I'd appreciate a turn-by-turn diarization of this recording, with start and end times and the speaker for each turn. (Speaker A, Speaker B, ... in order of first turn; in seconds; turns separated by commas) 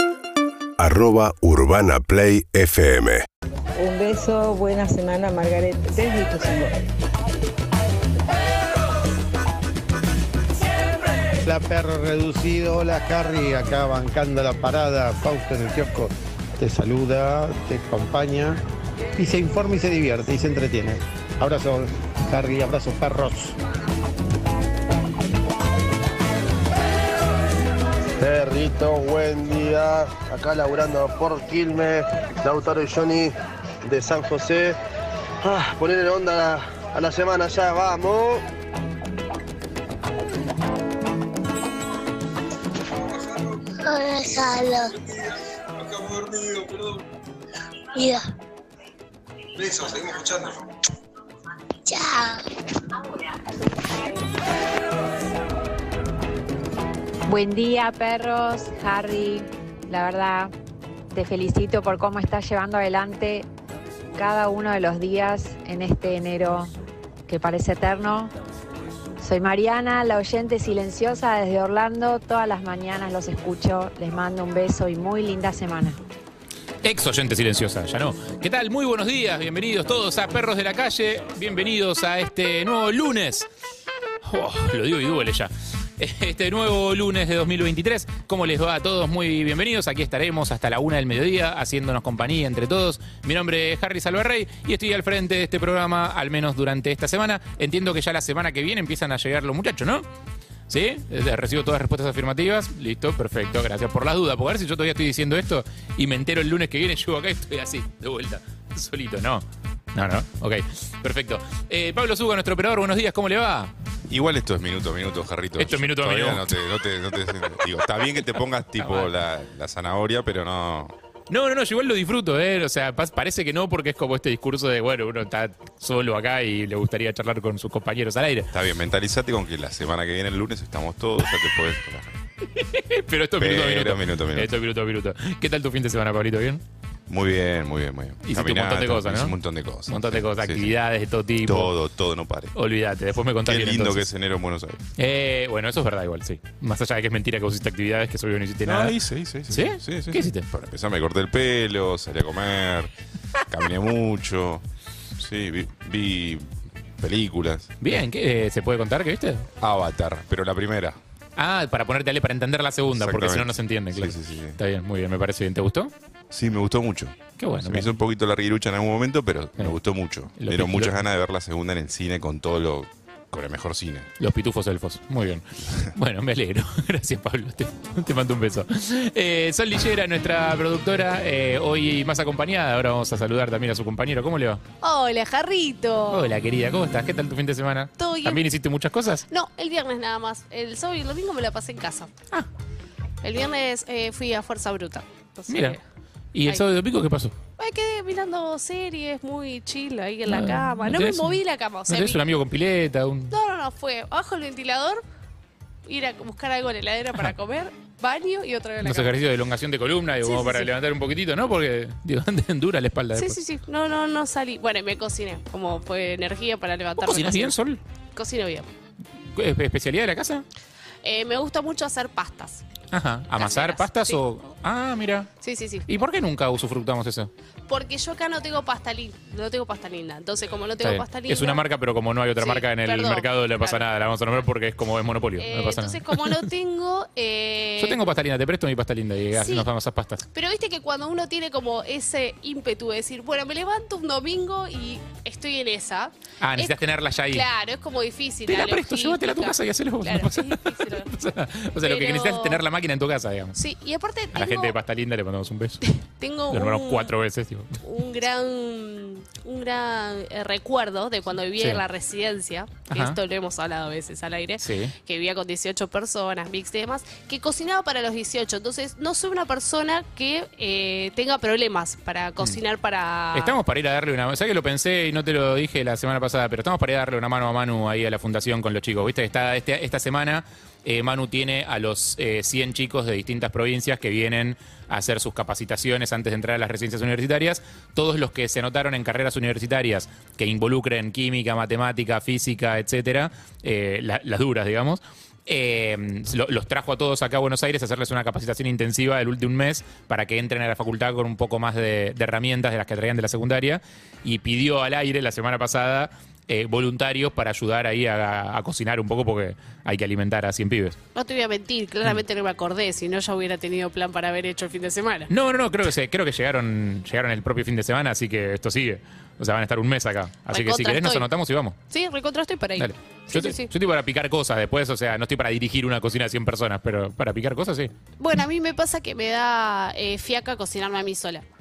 Speaker A: 0.8-3.2, Speaker B: 3.8-6.7, Speaker C: 11.4-18.6, Speaker C: 19.1-23.6, Speaker D: 28.2-33.3, Speaker D: 33.8-34.8, Speaker D: 35.4-38.4, Speaker D: 43.1-43.5, Speaker E: 43.8-44.9, Speaker D: 45.0-47.0, Speaker E: 47.9-48.2, Speaker D: 49.6-50.6, Speaker E: 51.8-52.4, Speaker F: 57.3-60.5, Speaker F: 61.1-63.5, Speaker F: 64.1-66.7, Speaker F: 67.3-68.3, Speaker F: 69.2-76.0, Speaker G: 76.8-83.5, Speaker G: 84.2-100.0, Speaker G: 100.7-109.4, Speaker G: 109.9-113.7, Speaker H: 114.1-120.9, Speaker G: 115.6-116.6, Speaker G: 118.8-119.1, Speaker G: 121.3-128.5, Speaker H: 128.5-132.1, Speaker G: 132.5-136.6, Speaker H: 133.4-134.5, Speaker H: 137.1-140.7, Speaker G: 138.2-139.3, Speaker G: 139.9-141.7, Speaker H: 141.4-142.5, Speaker G: 142.5-144.1, Speaker H: 143.4-144.8, Speaker G: 145.0-148.9, Speaker H: 148.6-152.9, Speaker G: 149.5-150.5, Speaker H: 153.5-154.6, Speaker H: 155.2-157.7, Speaker G: 157.8-159.5, Speaker H: 159.6-161.0, Speaker G: 161.3-165.9, Speaker H: 162.9-164.6, Speaker H: 166.3-174.1, Speaker G: 167.4-167.9, Speaker G: 170.4-171.0, Speaker G: 174.2-184.6, Speaker I: 184.8-186.3, Speaker G: 186.1-189.2, Speaker I: 188.0-188.4, Speaker I: 189.3-192.1, Speaker I: 193.2-195.8, Speaker G: 195.5-195.8, Speaker G: 196.3-197.3, Speaker I: 197.6-202.2, Speaker G: 200.3-203.3, Speaker I: 203.3-205.0, Speaker I: 205.8-209.2, Speaker G: 208.8-213.4, Speaker I: 210.2-210.7, Speaker I: 213.1-217.6, Speaker G: 217.0-217.8, Speaker I: 218.1-218.7, Speaker G: 219.3-220.4, Speaker I: 221.0-222.6, Speaker G: 222.9-225.3, Speaker I: 223.4-224.2, Speaker I: 225.4-225.8, Speaker G: 225.9-227.3, Speaker I: 227.7-231.6, Speaker G: 230.8-236.5, Speaker I: 232.4-233.8, Speaker I: 235.4-238.0, Speaker G: 237.8-240.3, Speaker I: 239.3-239.7, Speaker I: 240.3-246.8, Speaker G: 246.4-247.5, Speaker I: 247.3-251.1, Speaker G: 248.5-253.6, Speaker I: 251.8-252.6, Speaker I: 253.6-254.8, Speaker G: 254.3-255.9, Speaker I: 256.2-257.1, Speaker G: 256.5-257.8, Speaker I: 257.8-273.6, Speaker G: 261.6-261.8, Speaker G: 262.9-263.2, Speaker G: 264.6-264.9, Speaker G: 273.3-311.0, Speaker I: 311.1-315.3, Speaker G: 315.3-321.8, Speaker I: 320.5-321.3, Speaker I: 321.9-323.7, Speaker G: 322.8-327.9, Speaker I: 328.2-331.4